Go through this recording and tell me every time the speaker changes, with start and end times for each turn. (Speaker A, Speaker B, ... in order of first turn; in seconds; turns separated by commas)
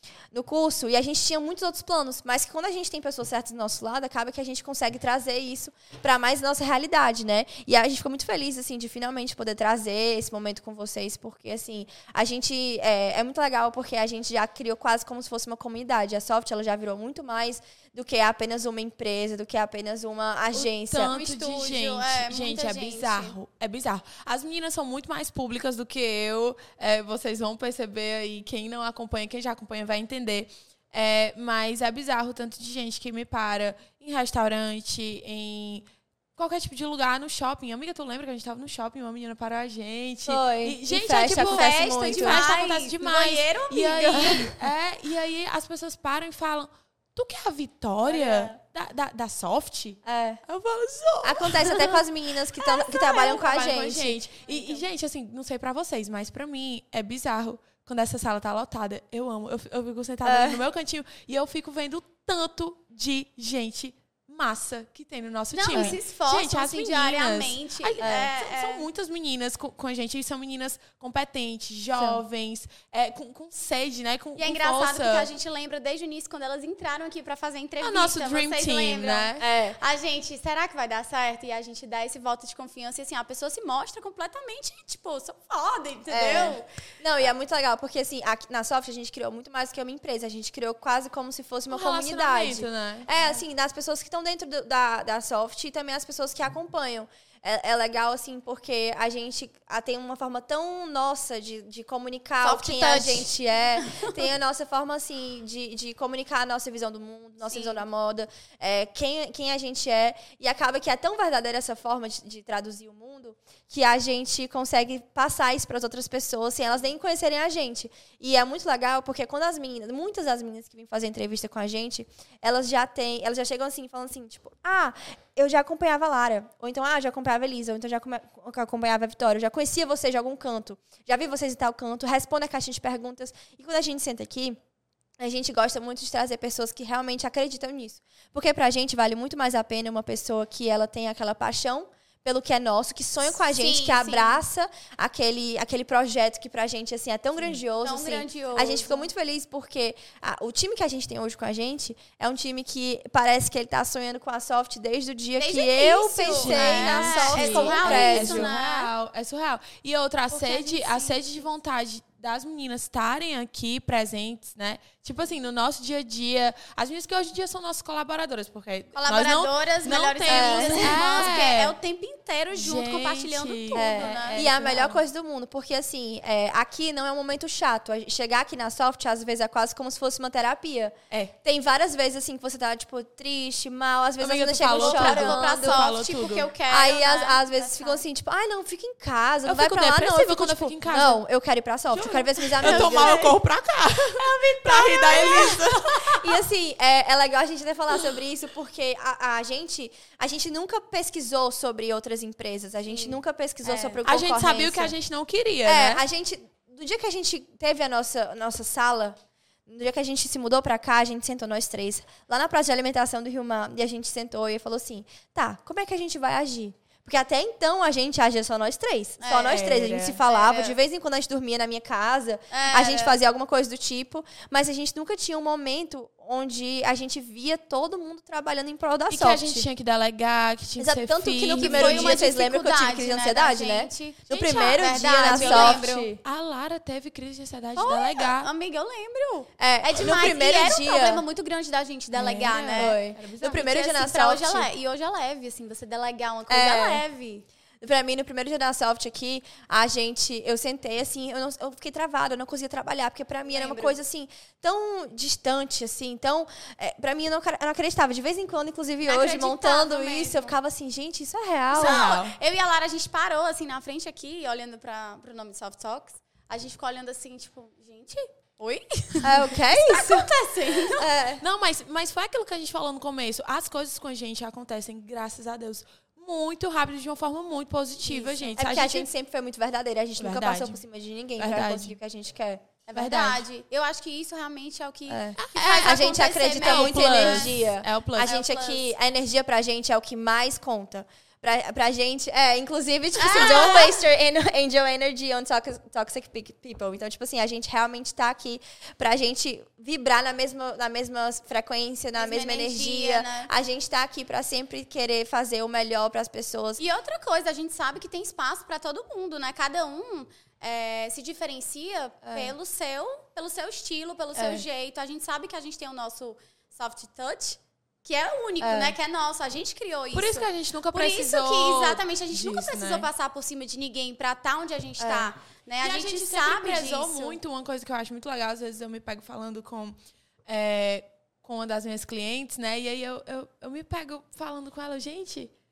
Speaker A: 0.3-21.1, Speaker B: 20.6-35.9, Speaker C: 21.0-23.4, Speaker B: 36.4-52.0, Speaker A: 40.3-42.5, Speaker C: 41.3-44.5, Speaker A: 44.2-44.6, Speaker A: 48.1-48.5, Speaker A: 50.0-50.4, Speaker A: 51.2-54.2, Speaker B: 52.6-75.3, Speaker C: 54.4-54.8, Speaker A: 60.2-60.6, Speaker C: 65.5-68.9, Speaker A: 68.0-68.3, Speaker A: 72.0-72.2, Speaker C: 74.4-86.7, Speaker B: 77.8-79.4, Speaker A: 79.4-79.8, Speaker A: 86.1-134.6, Speaker B: 91.7-93.1, Speaker C: 102.4-104.1, Speaker C: 107.5-107.8, Speaker A: 135.2-158.5, Speaker C: 143.3-144.4, Speaker C: 147.8-149.1, Speaker C: 155.4-158.9, Speaker B: 156.3-171.7, Speaker C: 160.3-161.4, Speaker C: 168.9-174.5, Speaker A: 170.3-171.1, Speaker B: 172.5-175.0, Speaker A: 173.7-185.8, Speaker B: 184.2-186.5, Speaker C: 184.7-188.0, Speaker A: 186.7-193.3, Speaker B: 189.4-191.2, Speaker B: 191.9-195.9, Speaker C: 192.6-193.4, Speaker C: 194.1-196.4, Speaker A: 196.0-204.9, Speaker C: 202.9-204.0, Speaker B: 204.1-206.0, Speaker A: 205.6-229.7, Speaker C: 219.2-220.8, Speaker B: 219.5-220.2, Speaker C: 222.5-223.2, Speaker B: 229.1-232.2, Speaker A: 230.8-236.2, Speaker C: 231.6-236.1, Speaker B: 235.3-238.5, Speaker C: 237.8-247.4, Speaker A: 239.6-241.2, Speaker B: 242.1-243.6, Speaker A: 242.2-244.7, Speaker A: 246.5-247.0, Speaker A: 247.8-262.1, Speaker C: 253.4-253.9, Speaker C: 259.1-260.5, Speaker C: 261.7-271.1, Speaker B: 261.7-262.4, Speaker A: 269.2-271.4, Speaker B: 271.4-279.1, Speaker C: 278.1-278.5, Speaker A: 278.6-282.9, Speaker B: 280.2-280.8, Speaker B: 281.4-281.9, Speaker C: 282.9-287.6, Speaker B: 282.9-283.4, Speaker A: 285.1-306.8, Speaker B: 285.4-288.3, Speaker C: 288.2-288.9, Speaker C: 293.1-294.0, Speaker C: 302.1-303.5, Speaker C: 306.8-327.4, Speaker B: 312.3-312.5, Speaker A: 314.3-314.6, Speaker A: 318.6-318.9, Speaker B: 320.1-323.1, Speaker A: 325.0-325.3, Speaker B: 325.8-335.5